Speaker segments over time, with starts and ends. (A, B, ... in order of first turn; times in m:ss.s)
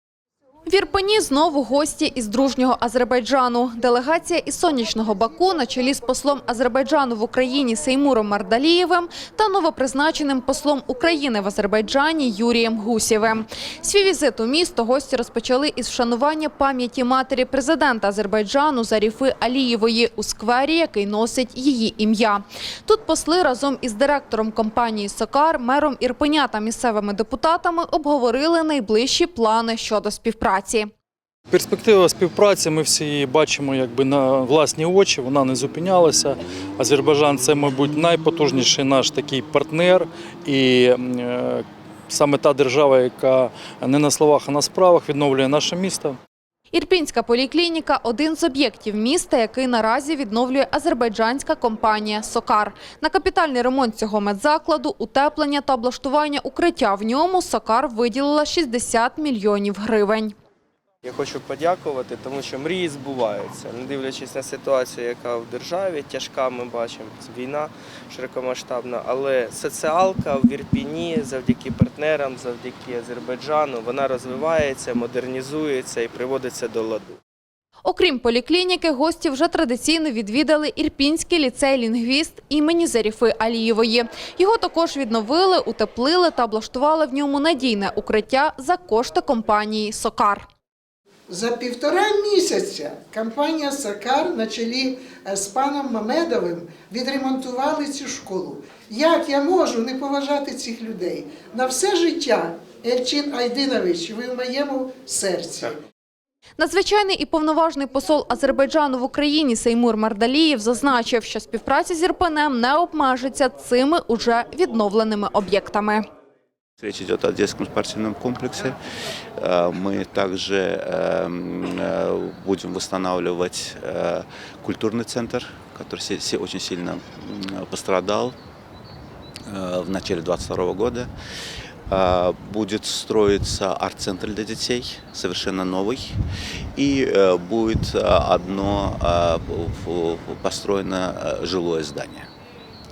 0:00.7-0:30.9 A
0:31.5-0:46.2 B
0:46.7-1:00.3 A
1:01.0-1:17.2 C
1:17.8-1:30.4 A
1:31.3-1:45.7 D
1:46.6-1:56.0 A
1:56.8-1:58.8 E
1:59.4-2:08.4 E
2:09.5-2:11.1 E
2:11.9-2:16.1 E
2:16.8-2:22.2 E